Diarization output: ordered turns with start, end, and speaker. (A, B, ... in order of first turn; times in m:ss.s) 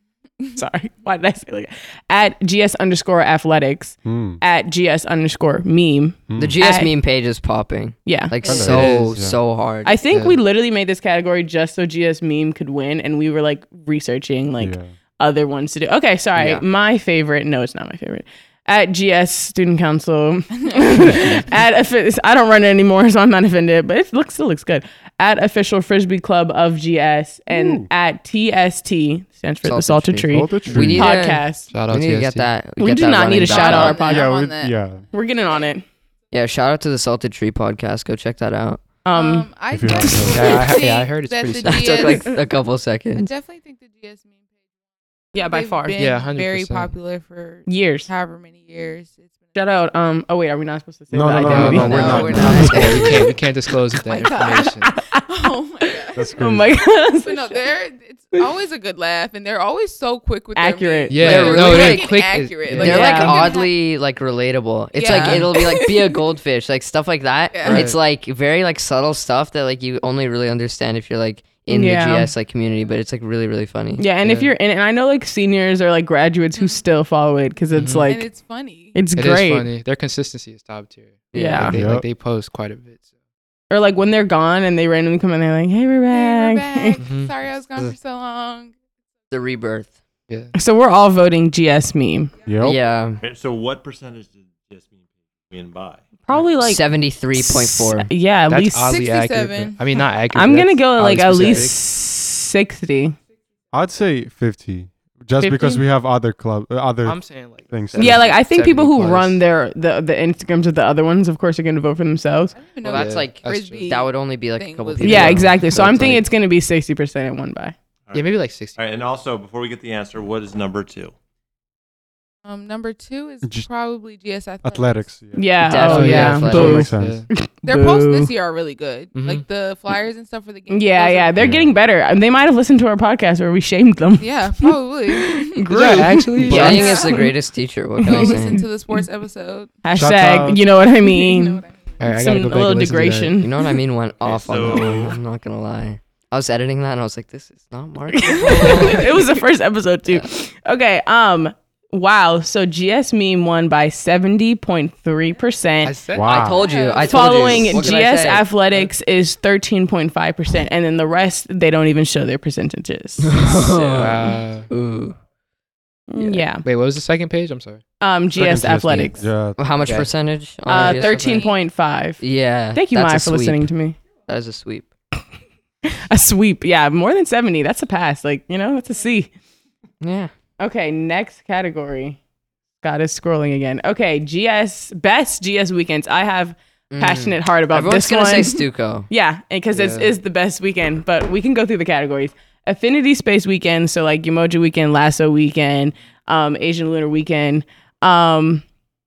0:00.5-0:06.9 A
0:04.0-0:04.4 B
0:06.3-0:06.6 B
0:06.4-0:09.9 C
0:08.0-0:08.4 A
0:08.4-0:09.4 B
0:08.7-0:09.2 D
0:09.8-0:31.7 A
0:10.1-0:10.4 D
0:14.6-0:14.9 B
0:16.4-0:16.6 C
0:20.6-0:21.1 E
0:27.5-0:27.9 B
0:29.6-0:34.0 C
0:30.3-0:31.1 B
0:31.7-0:32.4 D
0:32.8-0:34.3 A
0:33.3-0:34.8 E
0:34.0-0:35.0 B
0:35.1-0:35.8 A
0:36.3-0:38.8 C
0:39.0-0:39.5 A
0:39.1-0:42.4 E
0:39.7-0:40.6 B
0:40.2-0:42.0 D
0:41.6-0:43.3 C
0:42.1-0:42.4 A
0:43.1-0:44.4 E
0:45.3-0:46.0 A
0:45.4-0:49.4 E
0:46.0-0:46.9 D
0:47.7-0:48.1 A
0:49.5-0:52.2 A
0:51.1-0:53.2 B
0:51.3-0:54.9 D
0:51.7-0:53.3 E
0:52.3-0:53.0 C
0:53.9-0:56.3 E
0:54.4-0:57.6 A
0:56.1-0:56.8 B
0:57.2-1:03.7 E
1:00.6-1:01.3 A
1:01.1-1:03.3 D
1:01.2-1:14.1 C
1:02.8-1:03.4 A
1:04.9-1:06.2 E
1:05.1-1:05.5 D
1:07.5-1:07.9 E
1:07.6-1:08.0 D
1:11.7-1:12.3 A
1:14.0-1:18.3 A
1:14.2-1:14.5 D
1:17.7-1:18.1 D
1:18.1-1:19.0 E
1:18.9-1:19.7 A
1:19.1-1:23.0 D
1:21.3-1:21.8 C
1:21.3-1:21.8 A
1:21.6-1:22.1 B
1:23.7-1:27.0 A
1:26.1-1:28.7 E
1:27.0-1:27.3 D
1:29.3-1:30.0 C
1:30.5-1:32.3 A
1:32.4-1:32.8 B
1:32.6-1:33.2 C
1:33.2-1:36.5 F
1:36.2-1:38.9 A
1:36.6-1:38.1 C
1:38.5-1:41.8 D
1:38.8-1:39.9 E
1:40.3-1:43.2 A
1:43.7-1:48.2 B
1:45.4-1:45.8 A
1:47.0-1:49.4 D
1:48.0-1:52.5 A
1:52.6-1:55.4 E
1:52.8-1:56.2 C
1:52.9-1:53.9 D
1:55.0-1:57.7 A
1:58.1-2:01.1 F
1:58.1-1:58.8 D
2:02.4-2:05.1 E
2:04.6-2:07.2 B
2:05.4-2:08.3 A
2:05.6-2:06.9 C
2:05.8-2:07.3 D
2:07.6-2:11.5 E
2:09.1-2:09.4 D
2:10.7-2:17.3 A
2:11.4-2:11.7 B
2:14.2-2:15.6 E
2:15.7-2:17.0 D
2:16.4-2:18.6 C
2:16.5-2:17.3 E
2:18.0-2:19.0 A
2:18.0-2:19.7 E
2:19.8-2:23.7 A
2:19.9-2:20.6 B
2:20.9-2:22.0 E
2:22.0-2:23.4 D
2:23.4-2:29.3 C
2:24.2-2:25.2 F
2:28.1-2:36.0 A
2:35.8-2:36.5 D
2:36.1-2:36.6 B
2:36.2-2:38.5 C
2:36.5-2:37.5 E
2:37.0-2:43.4 A
2:37.6-2:37.9 D
2:43.2-2:45.2 C
2:43.9-2:44.7 D
2:46.1-2:46.6 A
2:46.6-2:47.8 D
2:48.0-2:49.3 A
2:48.4-2:50.0 B
2:49.6-2:51.5 C
2:49.8-2:50.1 D
2:50.7-2:52.2 A
2:50.7-2:51.6 E
2:52.2-2:53.7 C
2:52.7-2:54.0 A
2:54.3-2:54.9 C
2:55.9-2:59.3 A
3:00.0-3:00.3 C
3:00.6-3:02.2 A
3:02.8-3:18.6 A
3:06.9-3:09.1 C
3:09.7-3:10.1 D